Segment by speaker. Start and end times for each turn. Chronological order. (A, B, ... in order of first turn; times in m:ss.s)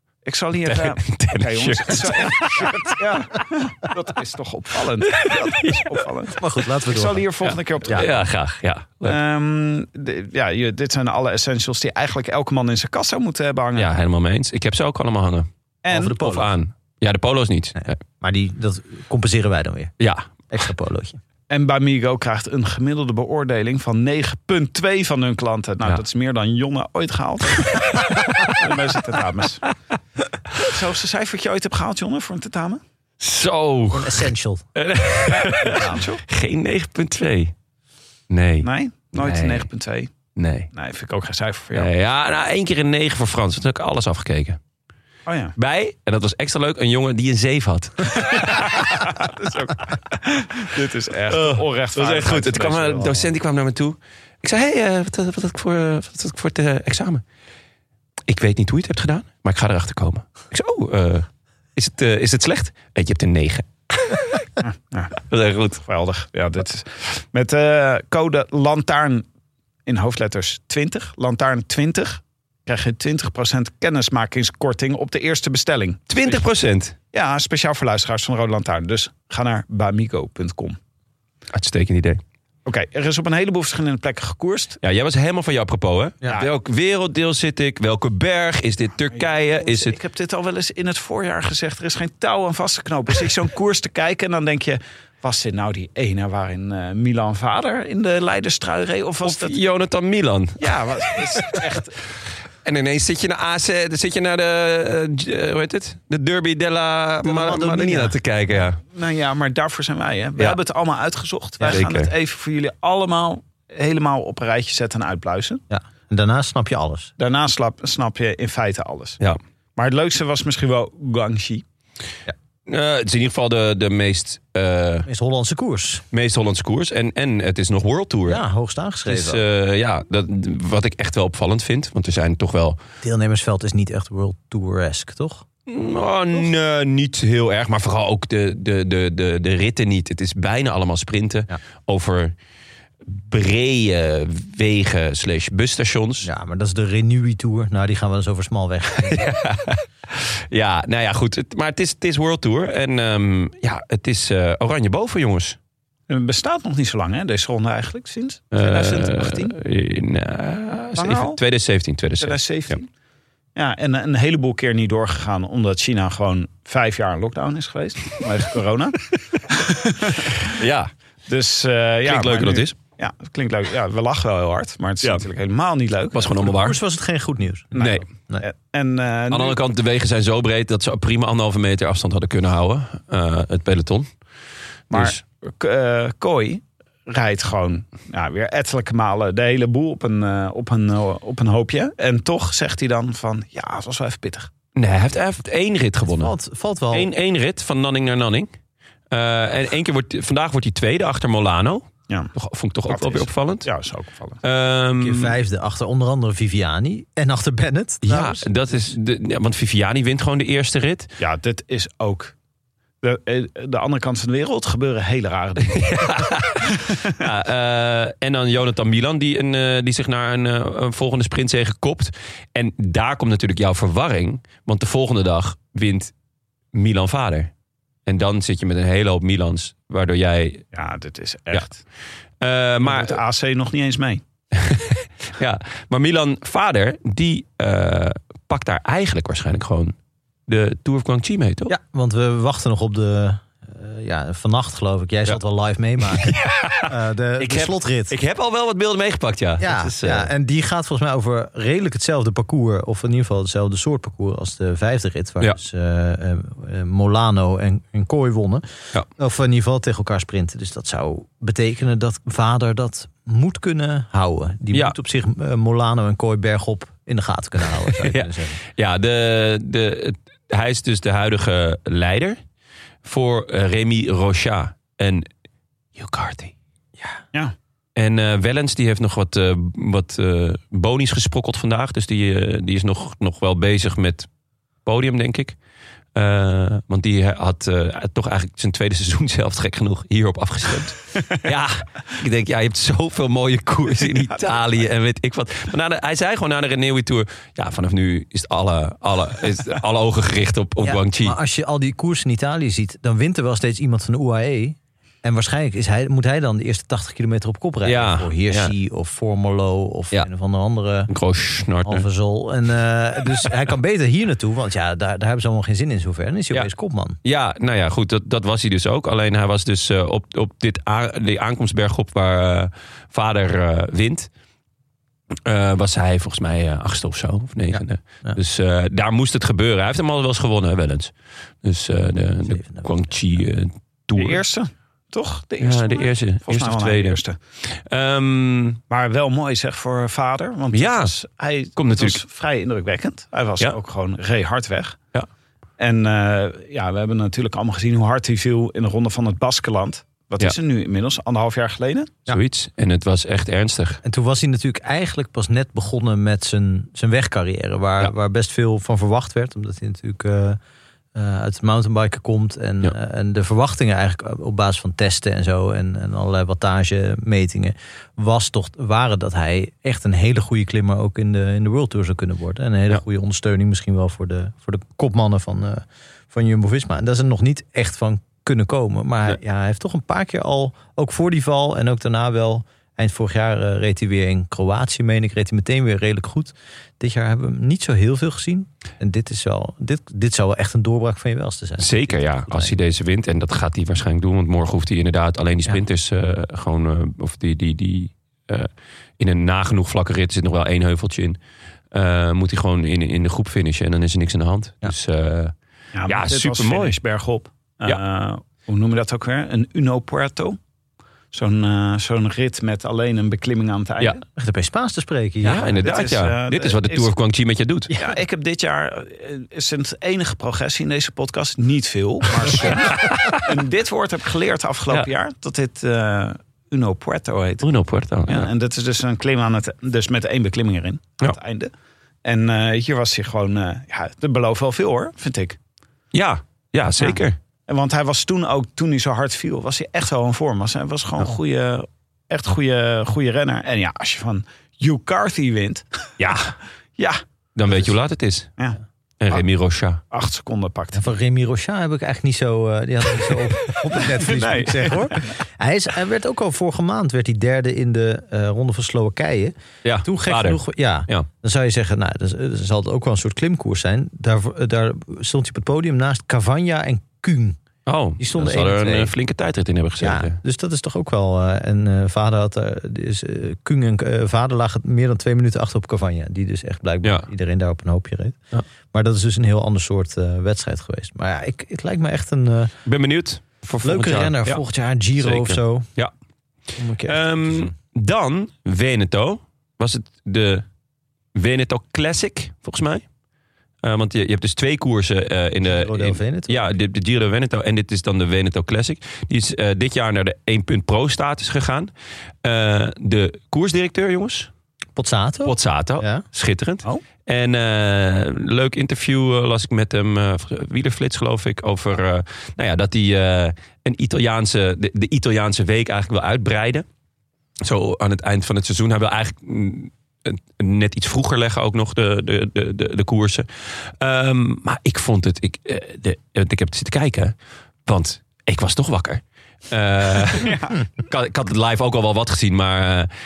0:00.2-0:08.2 A
0:00.6-0:03.0 B
0:05.1-0:05.9 B
0:06.3-0:07.3 C
0:07.4-0:09.2 B
0:09.0-0:13.9 A
0:13.8-0:15.5 B
0:15.8-0:16.4 A
0:15.9-0:16.5 C
0:16.0-0:18.0 B
0:17.8-0:19.9 C
0:20.0-0:20.3 B
0:20.5-0:21.2 C
0:21.5-0:29.6 A
0:28.2-0:28.6 B
0:30.6-0:32.8 A
0:33.2-0:37.5 B
0:33.9-0:34.7 C
0:35.4-0:36.2 A
0:35.7-0:36.0 C
0:38.3-0:39.7 B
0:38.6-0:40.1 A
0:40.4-0:40.7 B
0:40.7-0:41.9 A
0:41.7-0:44.6 B
0:45.2-0:45.5 A
0:45.6-0:49.1 B
0:48.2-0:53.3 A
0:51.3-0:57.2 B
0:58.3-1:04.5 B
1:04.6-1:05.2 A
1:05.3-1:05.8 B
1:05.8-1:09.2 A
1:09.8-1:16.4 A
1:16.1-1:16.9 B
1:17.1-1:20.8 A
1:21.5-1:22.2 B
1:22.6-1:24.8 A
1:24.8-1:30.0 B
1:29.1-1:39.6 A
1:39.2-1:41.6 B
1:40.6-1:42.0 A
1:42.6-1:48.8 B
1:47.2-1:48.2 C
1:48.9-1:55.6 A
1:51.7-1:52.1 B
1:55.7-1:57.1 C
1:57.2-1:59.2 A
1:59.8-2:01.6 A
2:02.6-2:05.1 B
2:05.0-2:06.0 C
2:06.1-2:08.4 B
2:08.3-2:09.4 C
2:09.0-2:12.8 B
2:13.0-2:15.4 C
2:15.7-2:22.3 B
2:23.0-2:26.3 B
2:26.2-2:29.3 C
2:29.0-2:35.6 B
2:36.1-2:39.5 A
2:38.5-2:42.8 B
2:41.0-2:41.4 A
2:42.2-2:42.9 A
2:43.5-2:50.6 A
2:50.4-2:50.9 B
2:51.3-2:56.5 A
2:52.0-2:52.7 B
2:56.1-2:56.8 B
2:56.4-2:58.4 C
2:57.7-2:59.6 A
2:57.8-2:58.0 B
2:59.3-3:04.1 B
3:04.9-3:05.2 B
3:04.9-3:14.5 A
3:14.8-3:16.3 B
3:16.0-3:17.1 C
3:16.9-3:18.5 B
3:19.1-3:23.7 B
3:22.9-3:24.4 A
3:24.4-3:25.3 B
3:25.0-3:28.6 C
3:28.0-3:31.1 B
3:31.2-3:32.3 A
3:33.0-3:37.2 A
3:35.7-3:46.1 B
3:46.7-3:47.5 B
3:48.0-3:50.6 B
3:50.7-3:51.8 A
3:52.4-3:53.2 B
3:52.8-3:54.2 A
3:54.5-3:59.9 B
4:00.5-4:01.8 B
4:01.7-4:08.2 C
4:06.2-4:10.3 B
4:09.6-4:28.6 C
4:27.9-4:32.4 B
4:33.0-4:35.3 B
4:36.0-4:36.5 B
4:38.0-4:44.3 B
4:44.8-4:45.6 B
4:46.1-5:01.4 B
5:00.8-5:11.1 C
5:07.8-5:08.7 B
5:11.1-5:12.1 B
5:11.8-5:17.2 C
5:17.2-5:24.3 B
5:25.4-5:34.4 B
5:27.7-5:28.4 C
5:32.5-5:33.1 C
5:34.1-5:37.4 A
5:35.6-5:38.8 B
5:38.9-5:45.0 A
5:40.7-5:41.1 B
5:41.8-5:42.2 B
5:45.8-5:52.2 A
5:52.3-5:54.0 B
5:54.0-6:00.6 C
6:01.1-6:32.8 C
6:31.8-6:41.4 B
6:41.9-6:45.5 B
6:45.9-6:50.6 A
6:46.1-6:47.0 B
6:51.3-6:54.2 A
6:54.4-6:55.8 C
6:55.4-6:57.9 B
6:55.7-6:57.1 A
6:57.9-7:07.6 A
7:02.6-7:03.4 B
7:07.6-7:08.5 B
7:08.3-7:11.7 A
7:12.2-7:15.6 A
7:16.1-7:17.4 B
7:17.0-7:26.1 A
7:26.2-7:26.5 B
7:27.5-7:28.5 B
7:29.2-7:30.0 B
7:30.1-7:31.1 A
7:30.9-7:47.6 C
7:34.1-7:35.3 A
7:39.8-7:41.3 B
7:47.8-7:50.4 B
7:48.2-7:49.1 C
7:50.0-8:02.7 C
8:02.8-8:04.6 B
8:03.8-8:05.9 C
8:05.2-8:06.1 B
8:06.8-8:07.7 C
8:07.0-8:10.6 B
8:11.3-8:13.0 B
8:13.8-8:21.9 B
8:15.6-8:16.7 C
8:22.4-8:24.5 B
8:25.0-8:26.2 C
8:25.4-8:36.8 B
8:37.6-8:47.3 B
8:47.8-8:53.1 B
8:50.3-8:50.8 A